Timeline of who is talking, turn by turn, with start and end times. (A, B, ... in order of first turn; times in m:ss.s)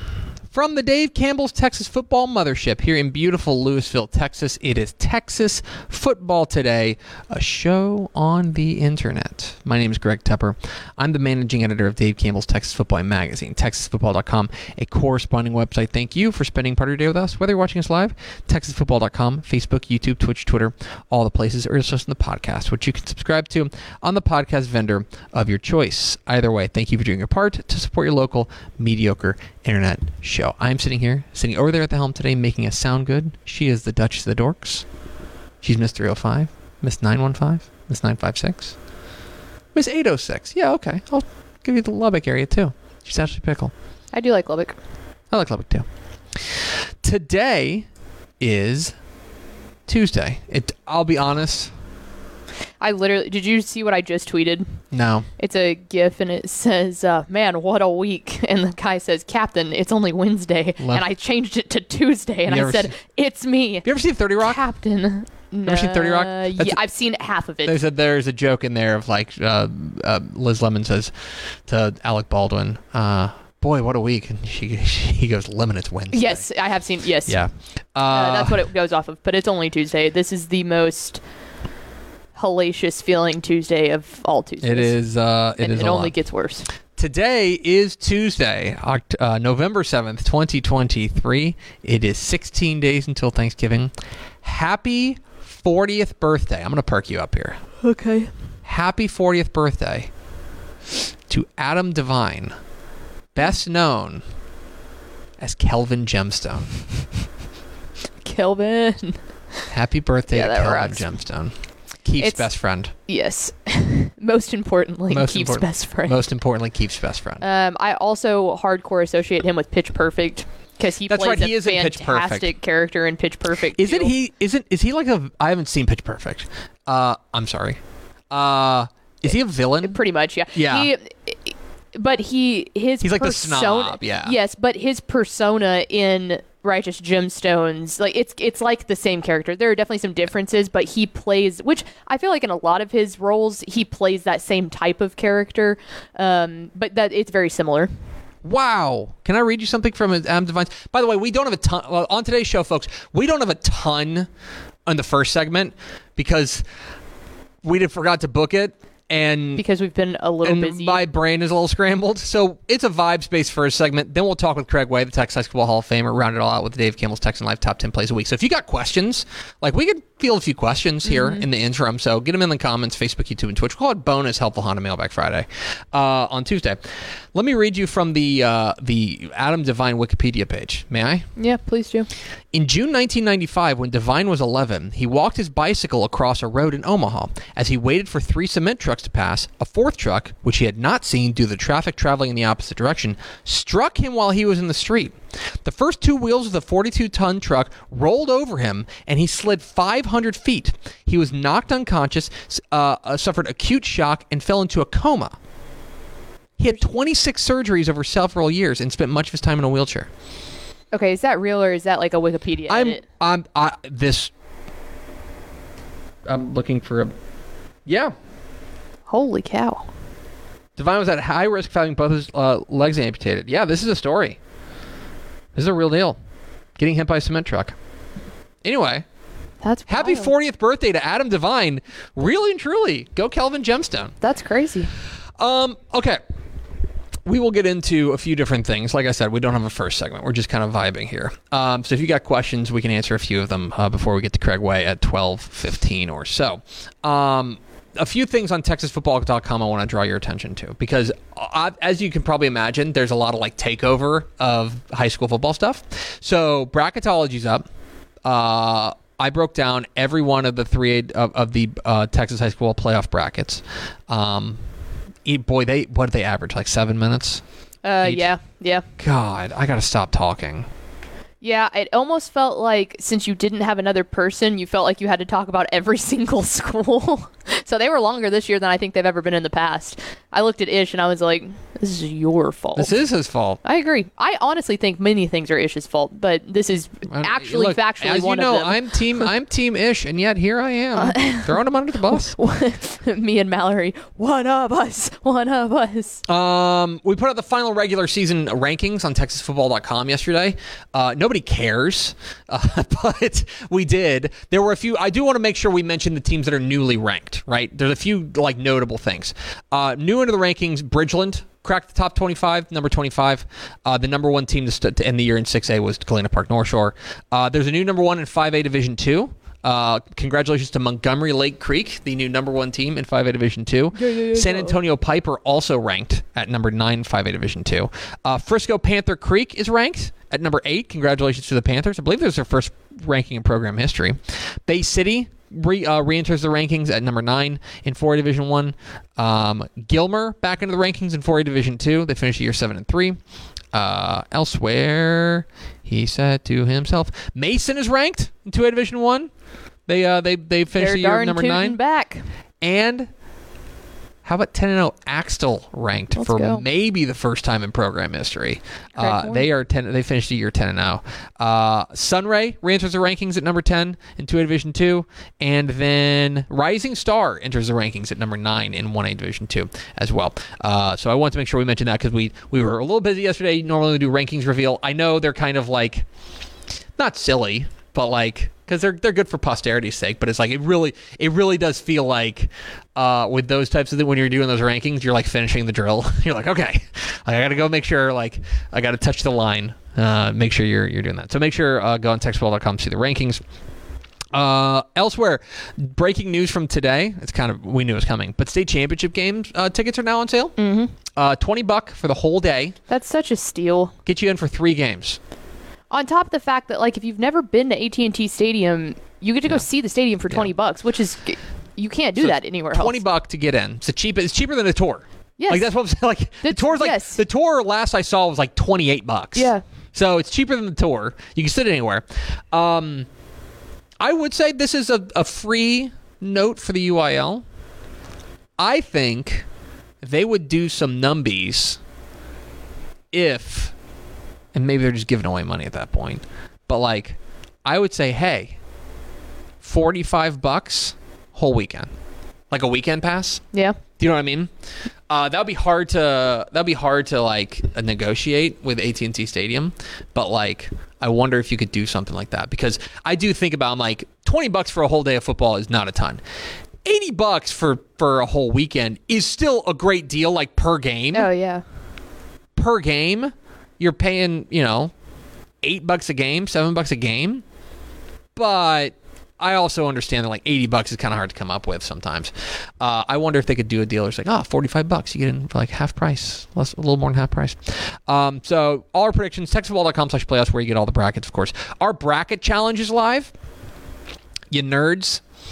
0:00.5-0:34.8 A
0:35.6-0:38.8 A
0:39.7-0:43.7 A
0:44.1-0:44.8 B
0:45.3-0:47.9 A
0:48.4-0:49.0 A
0:49.9-0:51.7 A
0:52.8-0:54.8 B
0:54.9-0:55.3 A
0:55.4-1:07.8 B
1:00.8-1:01.1 A
1:02.5-1:02.9 A
1:03.8-1:04.6 A
1:05.6-1:06.8 A
1:07.6-1:11.1 A
1:11.6-1:16.5 A
1:16.1-1:21.2 B
1:17.3-1:18.6 A
1:22.4-1:25.0 B
1:24.6-1:26.1 A
1:25.6-1:26.7 B
1:27.0-1:33.9 A
1:34.4-1:37.6 A
1:37.8-1:38.3 B
1:38.6-1:40.1 A
1:41.3-1:42.6 A
1:43.3-1:44.2 A
1:45.4-1:46.9 A
1:48.2-1:49.6 B
1:49.7-1:52.9 A
1:50.3-1:51.1 B
1:52.2-1:56.2 B
1:55.1-1:57.4 A
1:57.4-2:04.1 B
2:01.1-2:02.5 A
2:03.8-2:10.0 A
2:09.8-2:27.9 B
2:10.5-2:10.9 A
2:13.0-2:14.4 A
2:28.4-2:34.3 A
2:34.9-2:36.6 A
2:37.6-2:39.6 A
2:39.6-2:41.0 B
2:40.4-3:01.3 A
2:51.0-2:51.4 B
3:01.4-3:02.1 B
3:02.5-3:25.4 A
3:26.6-3:30.1 A
3:30.9-3:33.0 B
3:32.7-3:34.3 A
3:36.3-3:37.1 A
3:37.9-3:38.1 A
3:39.1-3:39.9 B
3:40.8-3:44.4 A
3:45.6-3:46.2 A
3:46.8-3:47.8 A
3:48.6-3:49.0 A
3:49.6-3:50.3 B
3:49.9-3:54.2 A
3:54.2-3:54.9 B
3:55.4-3:56.2 A
3:57.3-4:17.7 A
4:18.2-4:24.6 A
4:25.2-4:27.5 A
4:27.8-4:28.8 B
4:28.0-4:28.3 A
4:29.0-4:30.7 A
4:31.4-4:42.9 B
4:42.8-4:43.6 A
4:43.6-4:49.3 B
4:47.1-4:52.3 A
4:51.0-4:56.2 B
4:56.3-5:49.3 A
5:23.9-5:24.8 B
5:49.9-5:51.8 A
5:50.8-5:52.3 B
5:52.6-5:53.1 A
5:54.2-6:16.1 A
5:56.2-5:56.6 B
5:59.0-5:59.5 B
6:17.0-6:33.4 A
6:34.3-6:40.6 A
6:40.6-6:40.9 B
6:41.1-6:42.8 A
6:42.9-6:44.0 B
6:44.0-6:45.2 A
6:45.9-6:53.0 B
6:52.2-7:03.1 A
6:55.4-6:55.7 B
6:56.4-6:57.2 B
6:59.4-6:59.6 B
7:04.0-7:07.4 A
7:08.6-7:09.5 A
7:10.0-7:11.8 A
7:13.1-7:13.7 A
7:14.5-7:18.6 A
7:19.6-7:21.9 A
7:22.5-7:23.4 A
7:24.0-7:24.5 A
7:25.1-7:36.2 A
7:36.8-7:41.3 A
7:41.1-7:41.6 B
7:42.6-7:44.9 A
7:45.6-7:47.4 A
7:48.4-8:03.3 A
8:04.5-8:05.2 A